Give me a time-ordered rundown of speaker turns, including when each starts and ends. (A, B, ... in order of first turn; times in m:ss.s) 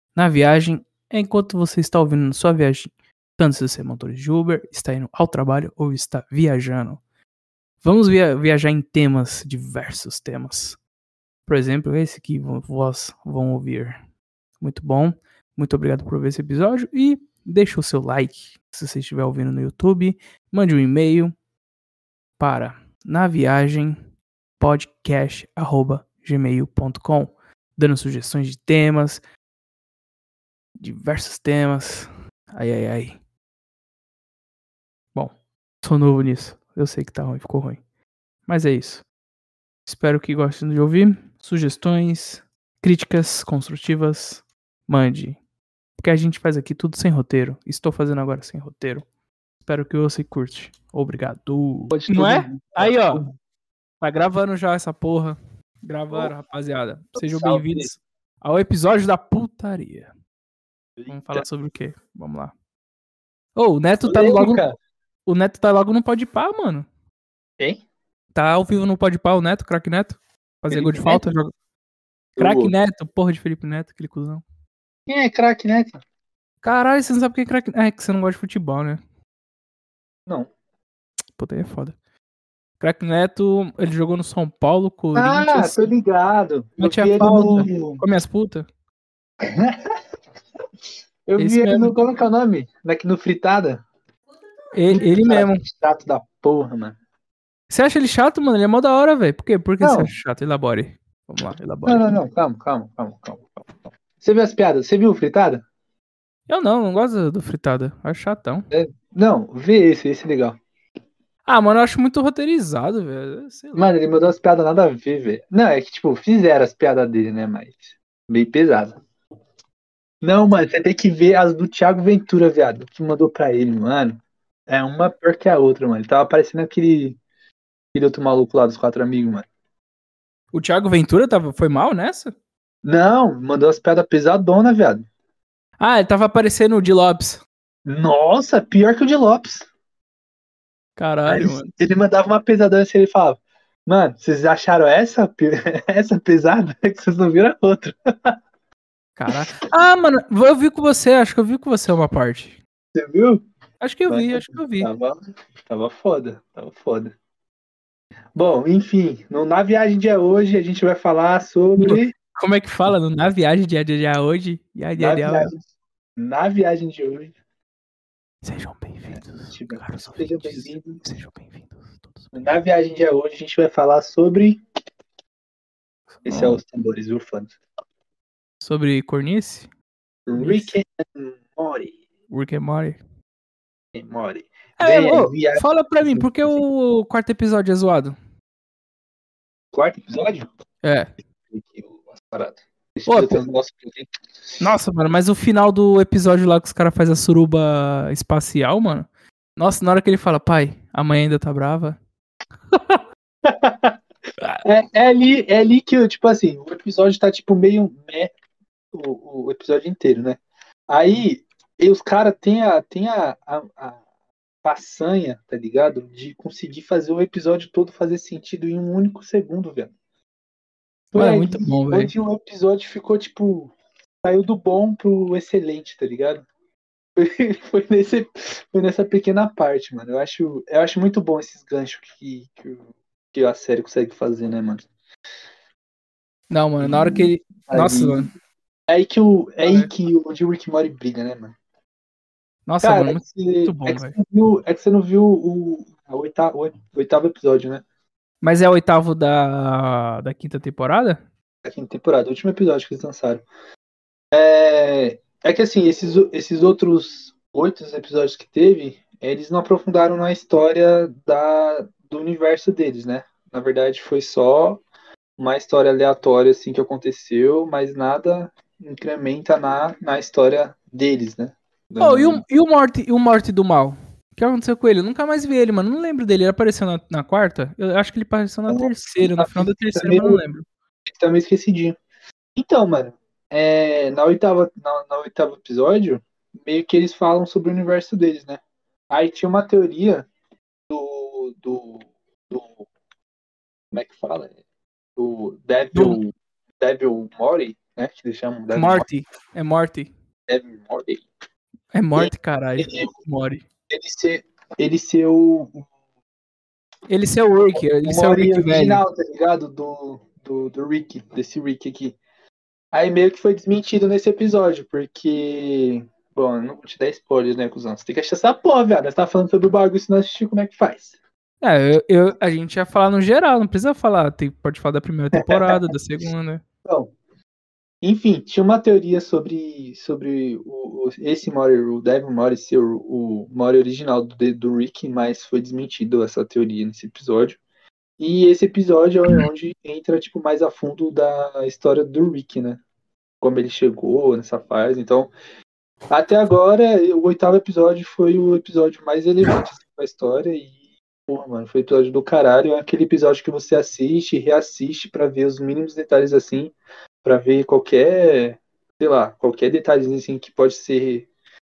0:00.2-0:07.0 A
0:07.8-0:10.8 A
0:11.5-0:14.0 A
0:14.6-0:21.3 A
0:22.4-0:24.0 A
0:24.6-0:29.2 A
0:30.8-0:33.2 A
0:35.1-0:37.8 A
0:38.5-0:39.1 A
0:39.9-0:45.4 A
0:46.0-0:49.1 A
0:49.6-0:53.2 A
0:51.9-0:53.3 B
0:54.0-1:00.1 A
0:57.2-0:57.9 B
1:01.0-1:01.5 B
1:01.1-1:02.5 A
1:03.6-1:04.6 A
1:04.0-1:04.8 B
1:05.3-1:06.9 A
1:08.4-1:11.5 A
1:10.7-1:11.2 B
1:12.4-1:12.7 B
1:12.4-1:14.4 A
1:15.1-1:16.0 B
1:16.6-1:19.0 A
1:21.4-1:22.0 A
1:22.8-1:25.9 A
1:25.2-1:28.0 B
1:26.8-1:28.7 A
1:29.4-1:30.0 B
1:31.3-1:33.8 B
1:31.4-1:32.0 A
1:34.7-1:35.6 A
1:34.9-1:37.0 B
1:37.7-1:42.2 A
1:39.8-1:40.1 B
1:41.8-1:45.6 B
1:46.5-1:48.6 A
1:48.7-1:50.6 B
1:51.5-1:53.9 A
1:53.8-1:59.0 B
2:00.2-2:07.2 B
2:07.9-2:09.5 B
2:10.5-2:12.4 A
2:12.8-2:15.1 B
2:15.8-2:17.4 A
2:17.9-2:19.7 B
2:21.0-2:21.7 A
2:21.3-2:28.4 B
2:29.2-2:32.6 A
2:33.0-2:33.4 B
2:33.8-2:34.9 A
2:34.1-2:37.1 B
2:38.4-2:42.1 B
2:41.8-2:45.5 A
2:45.0-2:45.6 B
2:46.2-2:47.3 B
2:48.4-2:52.6 A
2:49.2-2:51.0 B
2:52.3-2:54.6 B
2:56.1-2:56.6 A
2:56.3-2:57.6 B
2:58.6-2:59.7 A
3:00.3-3:02.0 B
3:00.4-3:00.7 A
3:02.3-3:03.0 A
3:03.9-3:06.6 B
3:04.8-3:08.2 A
3:09.7-3:10.5 B
3:10.8-3:11.1 A
3:11.4-3:14.6 B
3:13.1-3:13.4 A
3:14.6-3:22.0 A
3:22.7-3:23.0 A
3:23.4-3:24.0 B
3:24.6-3:28.3 B
3:28.9-3:34.0 B
3:34.6-3:39.9 B
3:41.1-3:46.5 B
3:41.1-3:42.1 A
3:47.2-3:54.9 B
3:56.5-3:58.3 A
3:56.8-3:58.3 B
3:58.9-4:01.6 B
3:59.6-3:59.9 A
4:02.7-4:04.2 A
4:02.8-4:07.8 B
4:08.4-4:11.2 A
4:11.6-4:13.4 B
4:14.3-4:24.8 B
4:25.4-4:32.4 B
4:32.0-4:40.6 A
4:38.7-4:40.4 B
4:41.1-4:42.0 B
4:42.6-4:50.3 B
4:50.9-4:52.9 B
4:53.9-4:54.6 B
4:55.2-4:59.1 B
4:55.9-4:56.2 A
4:58.7-5:00.1 A
5:00.5-5:01.2 B
5:01.9-5:03.6 A
5:02.2-5:03.1 B
5:03.9-5:05.9 B
5:07.1-5:09.0 A
5:07.8-5:12.2 B
5:12.9-5:21.2 B
5:21.6-5:26.6 A
5:25.4-5:25.8 B
5:26.8-5:27.1 B
5:28.0-5:37.6 B
5:38.2-5:42.8 B
5:43.4-5:45.3 B
5:46.1-5:50.8 B
5:51.3-6:01.3 B